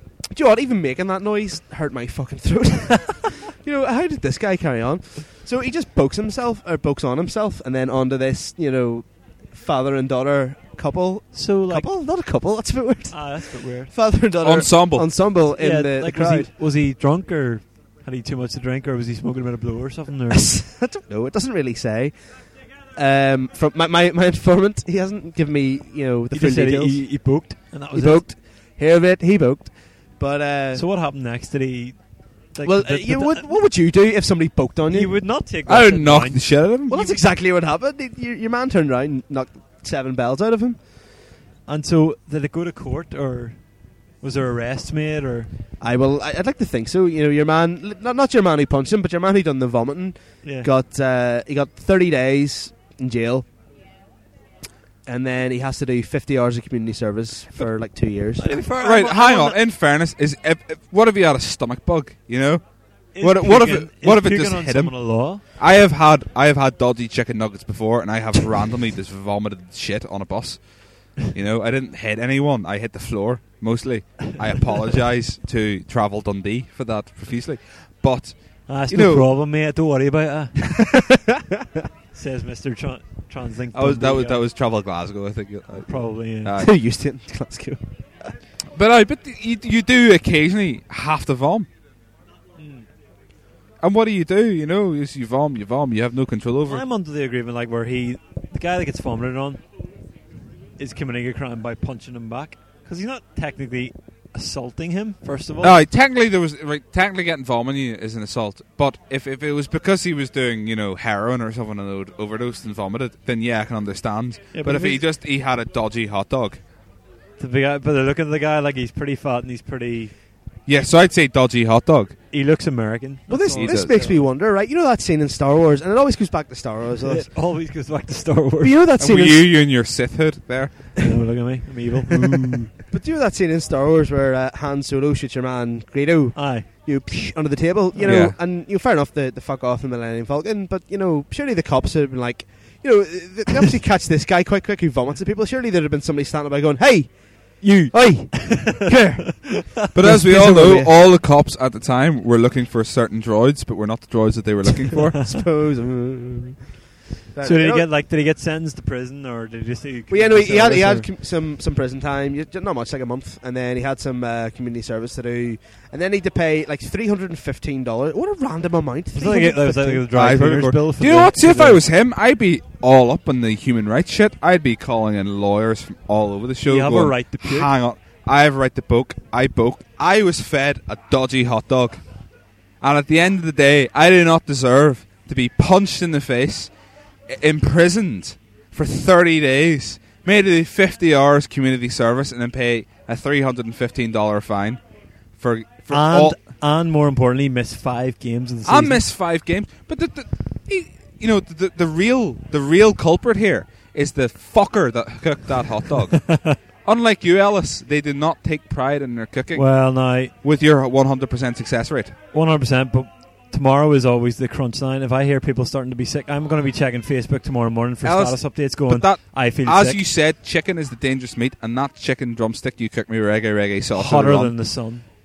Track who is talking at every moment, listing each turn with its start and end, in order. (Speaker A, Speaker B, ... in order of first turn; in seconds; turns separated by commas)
Speaker A: 0.3-16.5, Speaker B: 11.3-11.9, Speaker B: 13.1-13.9, Speaker C: 14.4-15.3, Speaker B: 15.6-20.6, Speaker A: 20.3-30.9, Speaker B: 26.3-28.3, Speaker B: 30.7-33.5, Speaker A: 32.6-35.3, Speaker B: 34.9-36.5, Speaker C: 35.7-37.1, Speaker A: 36.9-40.9, Speaker B: 41.7-45.5, Speaker A: 45.8-53.5, Speaker B: 50.4-50.7, Speaker A: 55.0-58.6, Speaker B: 58.4-59.6, Speaker C: 58.8-79.3, Speaker B: 63.1-65.4, Speaker B: 78.7-80.8, Speaker B: 82.1-84.4, Speaker C: 83.7-86.7, Speaker B: 85.8-86.5, Speaker A: 86.6-88.3, Speaker C: 88.8-91.7, Speaker B: 92.6-92.9, Speaker C: 93.8-96.8, Speaker B: 96.7-99.6, Speaker B: 100.8-105.8, Speaker C: 105.6-116.6, Speaker B: 114.5-115.0, Speaker B: 117.4-120.1, Speaker C: 120.7-122.2, Speaker B: 122.3-124.3, Speaker A: 123.3-127.3, Speaker C: 123.5-124.1, Speaker B: 127.0-128.8, Speaker A: 128.6-129.5, Speaker C: 129.0-131.0, Speaker B: 131.0-132.4, Speaker C: 132.1-132.7, Speaker A: 132.9-151.0, Speaker B: 136.3-137.3, Speaker B: 137.9-138.2, Speaker C: 138.1-138.4, Speaker B: 147.6-149.9, Speaker C: 149.9-155.3, Speaker A: 155.2-156.7, Speaker A: 157.3-157.9, Speaker B: 157.4-161.1, Speaker A: 160.1-170.1, Speaker B: 169.2-171.8, Speaker C: 170.1-182.3, Speaker B: 176.7-177.7, Speaker C: 182.8-194.8, Speaker C: 195.4-196.4, Speaker B: 195.9-199.0, Speaker C: 198.7-212.2, Speaker B: 209.5-210.3, Speaker B: 212.3-220.0, Speaker C: 218.0-225.0, Speaker B: 223.9-225.1